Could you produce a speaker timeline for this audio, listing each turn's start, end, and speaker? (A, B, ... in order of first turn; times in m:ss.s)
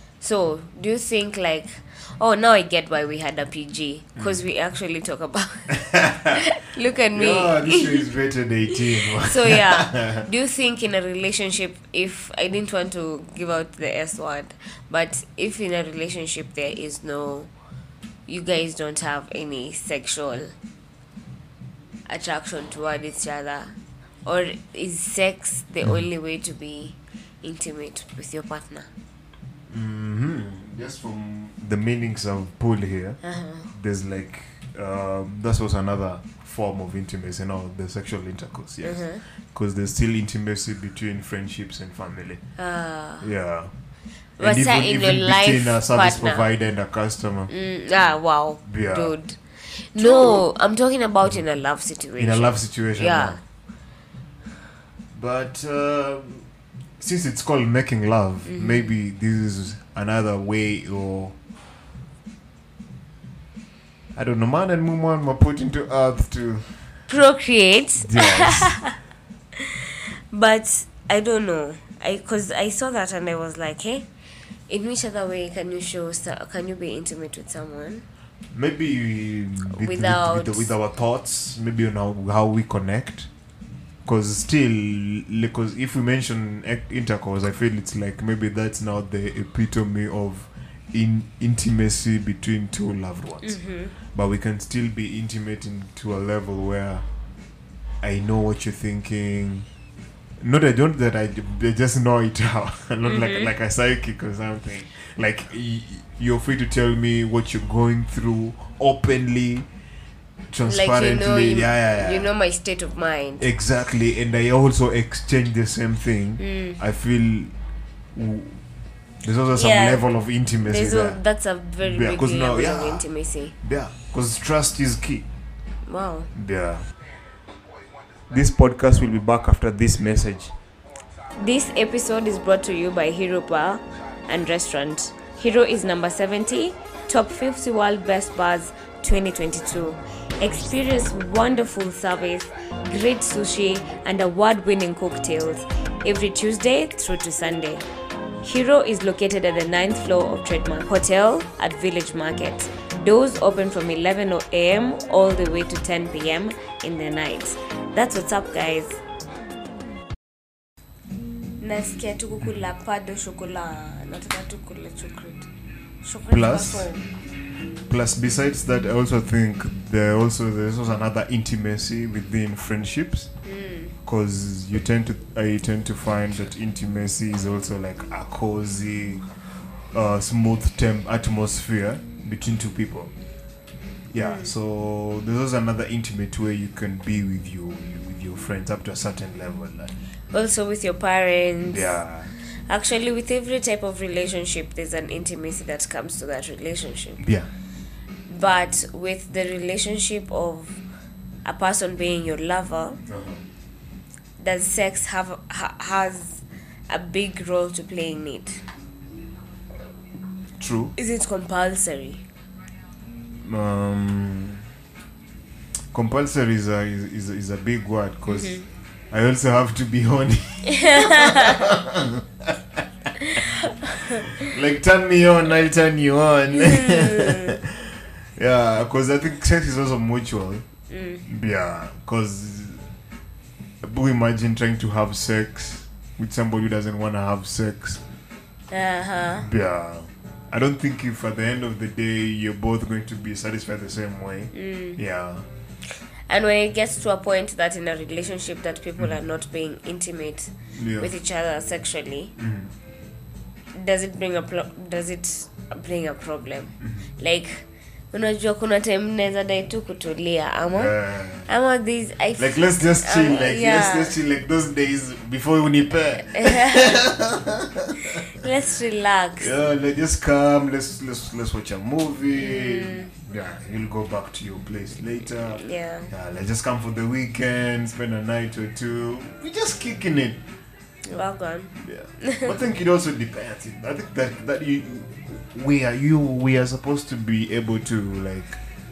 0:00.2-0:08.0 A
0:05.7-0:06.4 B
0:07.1-0:10.2 B
0:09.0-0:17.5 A
0:18.3-0:20.5 A
0:22.1-0:28.9 A
0:29.7-0:42.4 B
0:33.2-0:33.7 A
0:38.8-0:39.2 A
0:42.6-0:43.2 A
0:43.2-0:43.7 B
0:44.4-0:46.5 A
0:44.4-0:47.5 B
0:47.5-0:53.4 A
0:48.7-0:49.1 B
0:50.0-0:50.4 B
0:52.2-0:53.4 B
0:55.1-0:56.4 B
0:57.0-1:01.4 B
0:58.4-0:58.9 A
1:04.1-1:06.7 B
1:07.1-1:08.9 A
1:08.0-1:08.8 B
1:09.6-1:14.1 A
1:14.7-1:18.0 A
1:18.5-1:23.3 B
1:19.7-1:20.7 A
1:24.0-1:33.6 B
1:33.4-1:33.9 A
1:34.1-1:37.0 B
1:38.0-1:39.7 B
1:40.4-1:49.7 B
1:43.0-1:43.5 A
1:50.5-1:52.3 B
1:50.6-1:53.4 A
1:53.4-1:57.5 B
1:56.4-1:56.8 A
1:58.1-1:58.6 B
1:59.2-2:01.2 B
1:59.5-2:00.0 A
2:00.6-2:03.5 A
2:01.8-2:03.0 B
2:03.6-2:05.2 B
2:05.9-2:06.3 A
2:06.3-2:06.9 B
2:08.3-2:10.5 B
2:11.4-2:27.8 A
2:28.4-2:39.0 A
2:41.6-2:45.5 A
2:46.0-2:47.0 A
2:46.3-2:46.9 B
2:47.9-2:53.3 B
2:53.4-2:53.9 A
2:54.0-2:59.2 B
2:59.9-3:03.1 B
3:04.1-3:09.9 B
3:04.2-3:04.5 A
3:10.3-3:12.0 A
3:11.7-3:12.3 B
3:12.7-3:17.2 A
3:17.2-3:17.5 B
3:18.3-3:20.8 A
3:21.4-3:23.0 A
3:23.1-3:23.4 B
3:24.4-3:28.6 A
3:30.6-3:30.9 B
3:31.0-3:32.2 A
3:33.4-3:34.6 B
3:35.9-3:38.6 B
3:38.3-3:38.6 A
3:39.1-3:42.8 B
3:40.7-3:41.6 A
3:43.2-3:44.2 A
3:44.3-3:50.6 B
3:46.5-3:47.6 A
3:50.9-3:51.2 A
3:51.3-3:52.8 B
3:53.8-3:58.0 B
3:58.7-3:59.5 A
3:59.4-4:05.4 B
4:04.5-4:05.0 A
4:06.3-4:12.3 A
4:10.8-4:11.1 B
4:12.4-4:12.7 B
4:13.7-4:20.9 A
4:20.7-4:21.5 B
4:21.4-4:24.2 A
4:22.4-4:28.3 B
4:26.3-4:27.0 A
4:28.3-4:29.5 A
4:29.4-4:40.4 B
4:32.4-4:33.1 A
4:35.4-4:36.1 A
4:41.0-4:42.5 A
4:41.8-4:48.6 B